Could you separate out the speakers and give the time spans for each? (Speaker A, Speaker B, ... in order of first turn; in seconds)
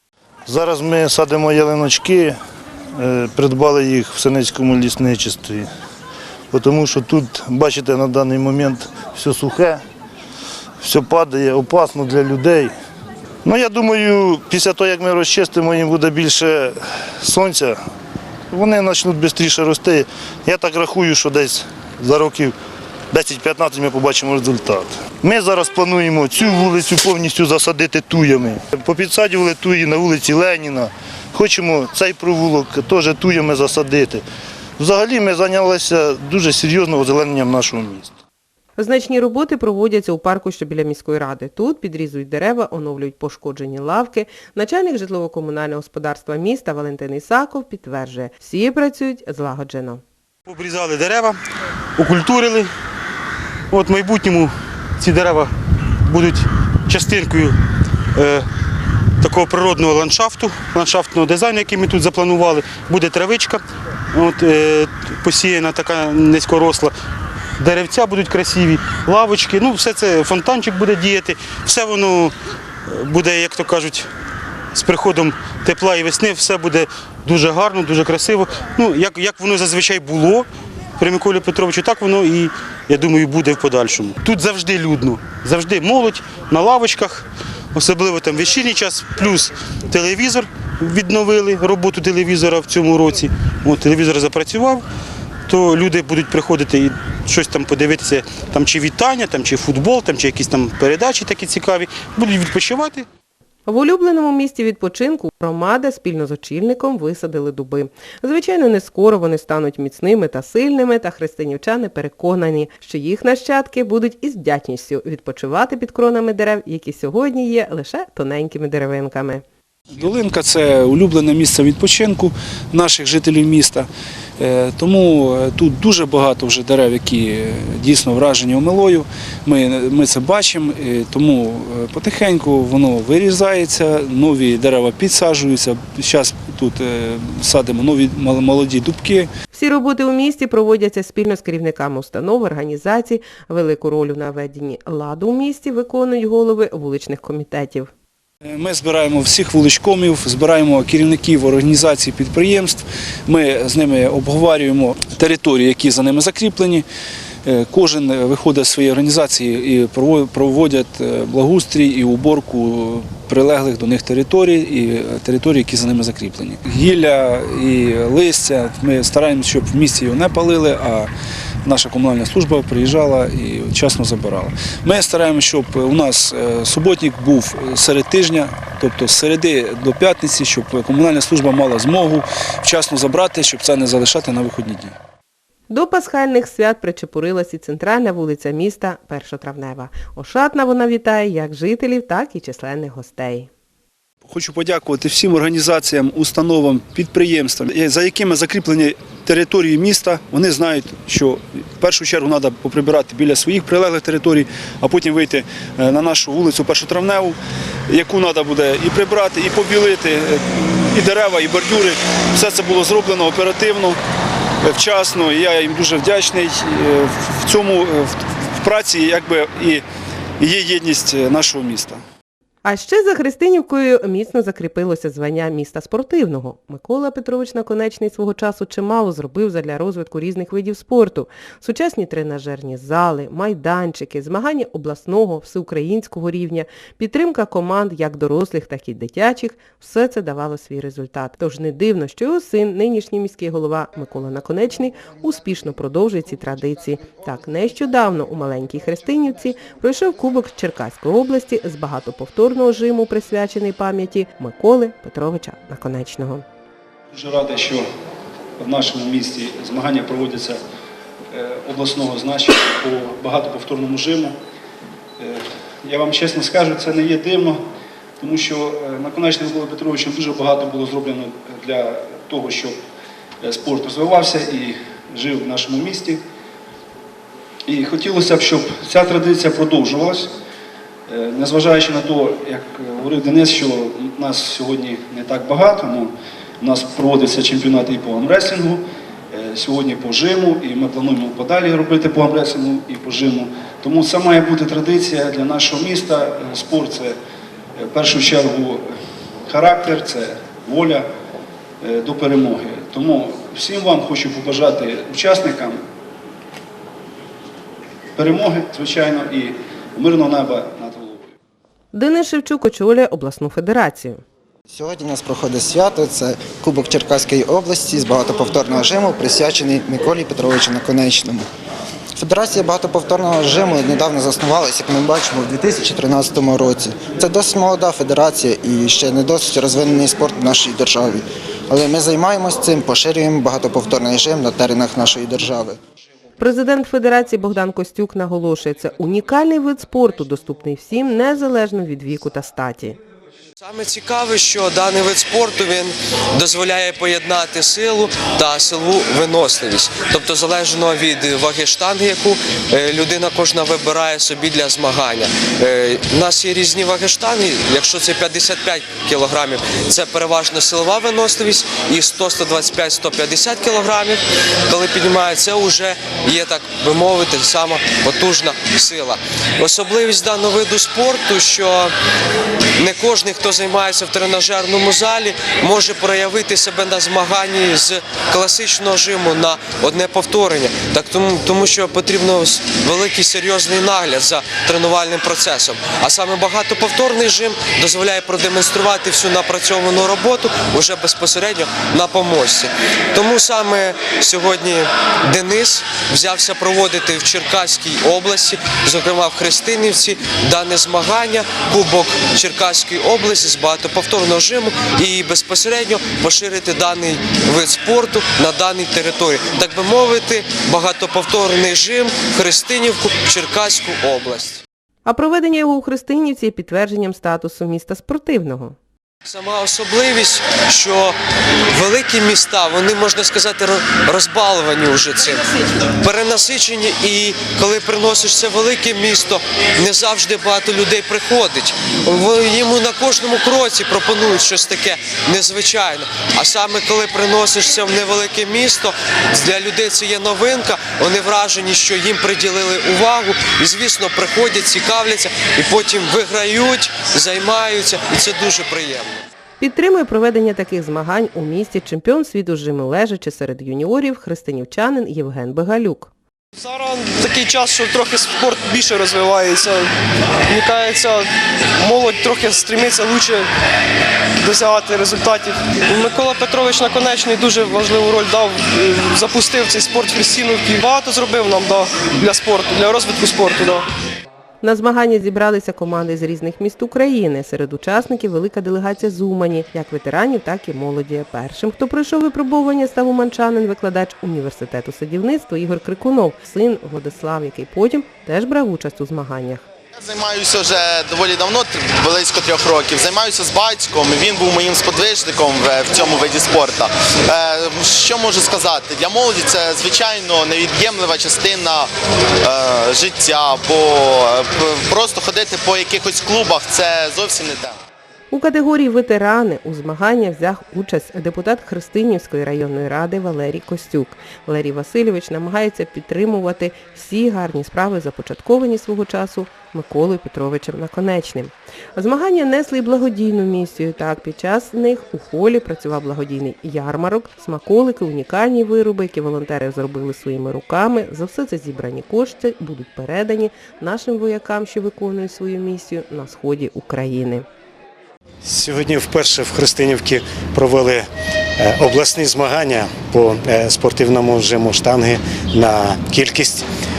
Speaker A: 0.5-2.4, 3.0-5.7, 6.5-9.8, 10.8-12.7, 13.4-17.8, 18.5-22.5, 23.1-34.2, 34.8-38.1
Speaker B: 38.8-50.0, 103.7-119.4, 139.5-147.9, 185.7-193.5, 222.6-256.4, 311.9-314.2, 336.4-343.0, 415.0-418.8, 449.6-456.1, 474.6-489.6, 508.3-537.4
Speaker C: 50.5-51.4, 52.0-52.7, 53.7-55.5, 56.0-57.6, 58.1-58.5, 59.2-63.6, 64.1-66.9, 67.6-72.3, 72.9-74.1, 74.7-80.5, 81.0-94.8, 95.5-103.0
Speaker D: 119.9-123.9, 124.4-139.3, 148.5-156.8, 157.4-171.1, 171.6-184.9, 194.2-207.4, 207.9-214.0, 214.6-219.8, 220.4-222.0, 257.1-257.8, 258.6-260.6, 261.3-264.3, 265.2-267.6, 268.2-272.8, 273.4-276.2, 277.7-280.3, 281.1-288.8, 289.3-297.2, 297.8-298.8, 299.5-301.1, 301.8-305.8, 308.2-311.3
Speaker E: 314.7-321.5, 322.1-335.8
Speaker F: 343.6-371.9, 372.8-414.6, 419.2-421.2, 421.7-449.2
Speaker G: 456.7-459.8, 460.5-461.2, 461.8-463.4, 464.4-473.8
Speaker H: 489.9-501.9, 502.4-507.8
Speaker I: 538.4-541.0, 541.6-546.7